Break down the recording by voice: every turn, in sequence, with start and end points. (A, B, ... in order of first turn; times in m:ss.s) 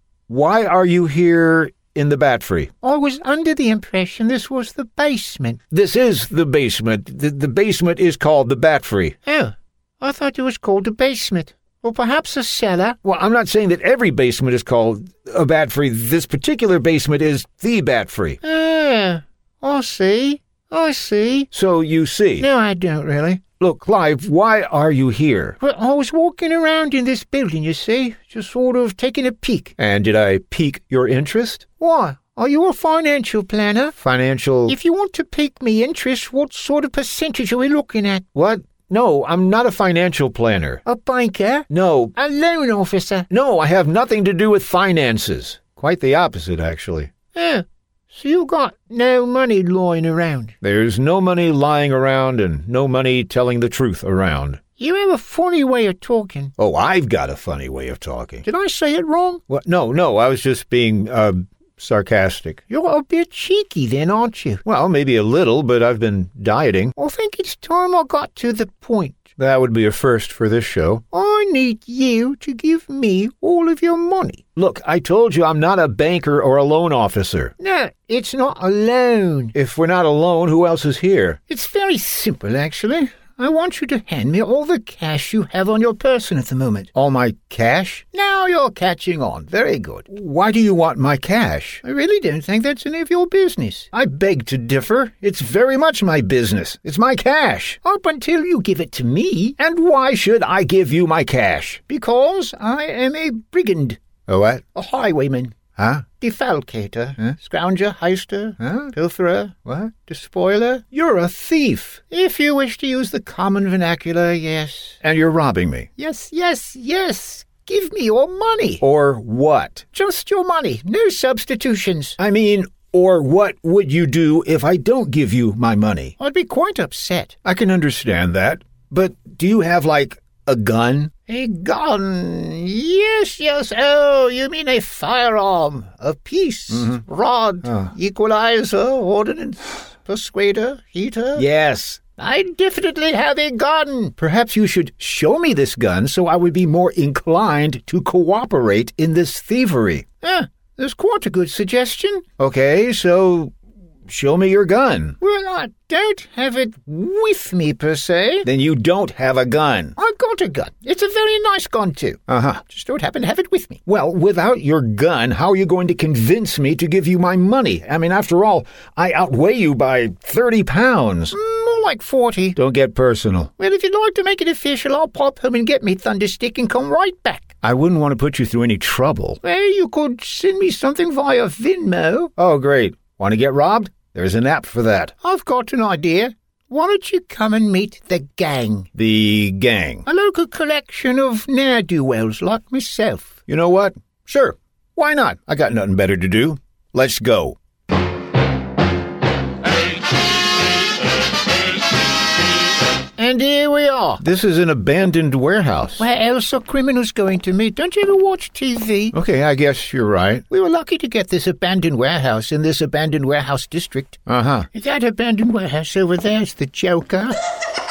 0:00.3-0:02.7 A
0:02.8-0:05.6 B
0:05.7-0:09.1 A
0:09.2-0:13.0 B
0:13.0-0:18.4 A
0:18.4-0:21.5 B
0:21.5-0:22.5 A
0:22.4-0:23.4 B
0:23.6-0:25.6 A
0:25.6-0:29.7 B
0:29.8-0:31.6 A
0:31.8-0:34.0 B
0:34.0-0:34.8 A
0:34.6-0:38.3 B
0:38.3-0:40.8 A
0:40.8-0:43.3 B
0:41.7-0:42.1 A
0:43.3-0:47.1 A
0:47.3-0:50.5 B
0:50.6-0:54.6 A
0:54.8-0:56.5 B
0:56.6-0:58.4 A
0:58.4-0:59.4 B
0:59.5-1:02.6 A
1:02.7-1:04.6 B
1:04.6-1:06.9 A
1:07.0-1:09.2 B
1:09.4-1:11.0 A
1:11.1-1:14.4 B
1:14.6-1:17.5 A
1:17.6-1:19.5 B
1:19.5-1:21.4 A
1:21.5-1:26.9 B
1:26.9-1:28.0 A
1:28.0-1:30.0 B
1:29.7-1:31.8 A
1:31.8-1:33.9 B
1:33.9-1:37.8 A
1:37.8-1:39.6 B
1:39.6-1:41.9 A
1:41.9-1:44.0 B
1:44.3-1:44.7 A
1:44.7-1:50.9 B
1:45.7-1:46.0 A
1:48.6-1:48.9 A
1:50.9-1:52.0 A
1:52.0-1:55.0 B
1:55.0-1:55.9 A
1:56.0-1:58.8 B
1:58.8-1:59.8 A
1:59.9-2:02.2 B
2:02.2-2:06.1 A
2:06.2-2:07.3 B
2:07.4-2:11.1 A
2:11.3-2:21.4 B
2:16.7-2:17.0 A
2:21.4-2:22.0 A
2:22.2-2:24.2 B
2:24.2-2:30.0 A
2:30.2-2:32.4 B
2:32.4-2:33.5 A
2:34.1-2:35.2 A
2:35.2-2:38.5 B
2:38.4-2:39.9 A
2:40.0-2:43.8 B
2:42.3-2:42.7 A
2:43.8-2:51.3 A
2:51.3-2:52.6 B
2:52.6-2:53.5 A
2:53.6-2:57.5 B
2:57.6-2:59.4 A
2:59.4-3:02.3 B
3:02.4-3:05.1 A
3:05.2-3:08.9 B
3:08.9-3:10.0 A
3:10.0-3:13.4 B
3:13.5-3:17.6 A
3:23.2-3:24.2 B
3:24.2-3:26.0 A
3:26.0-3:29.2 B
3:29.1-3:30.4 A
3:30.5-3:37.4 B
3:34.3-3:34.7 A